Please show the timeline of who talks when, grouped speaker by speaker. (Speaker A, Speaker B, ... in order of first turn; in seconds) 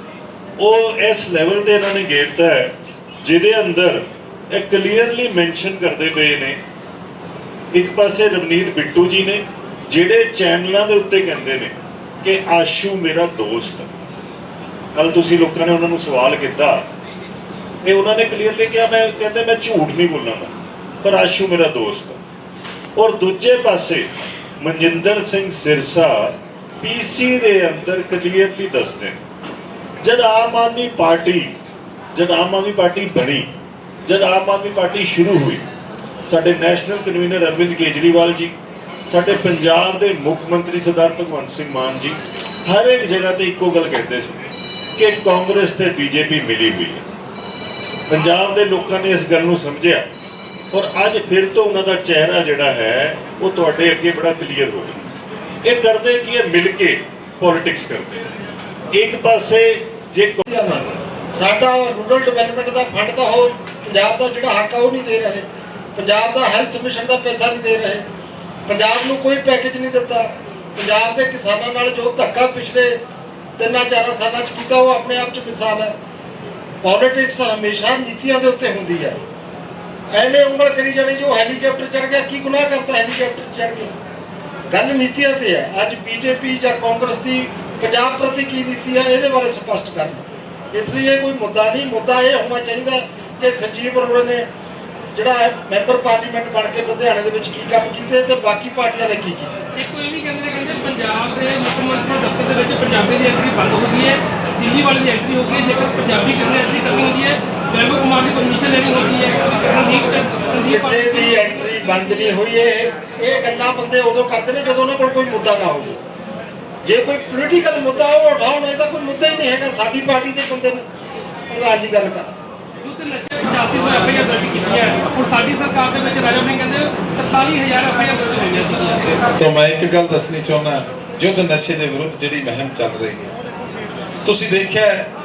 Speaker A: 0.6-6.6, 7.7-13.9, 14.9-16.9, 17.8-22.2, 23.0-29.2, 30.0-31.6, 32.1-33.5, 34.1-35.6, 36.3-38.5, 39.1-44.4, 45.0-47.0, 48.1-50.1, 50.7-55.0, 55.6-58.2, 58.9-60.5
Speaker B: 60.5-68.0, 68.7-73.0, 73.6-75.9, 76.8-79.2, 80.1-83.9, 84.7-94.4, 95.2-99.7, 110.7-116.0, 116.9-120.8, 121.5-122.3
Speaker C: 99.8-112.0, 122.8-129.2
Speaker D: 129.3-133.3, 134.2-135.1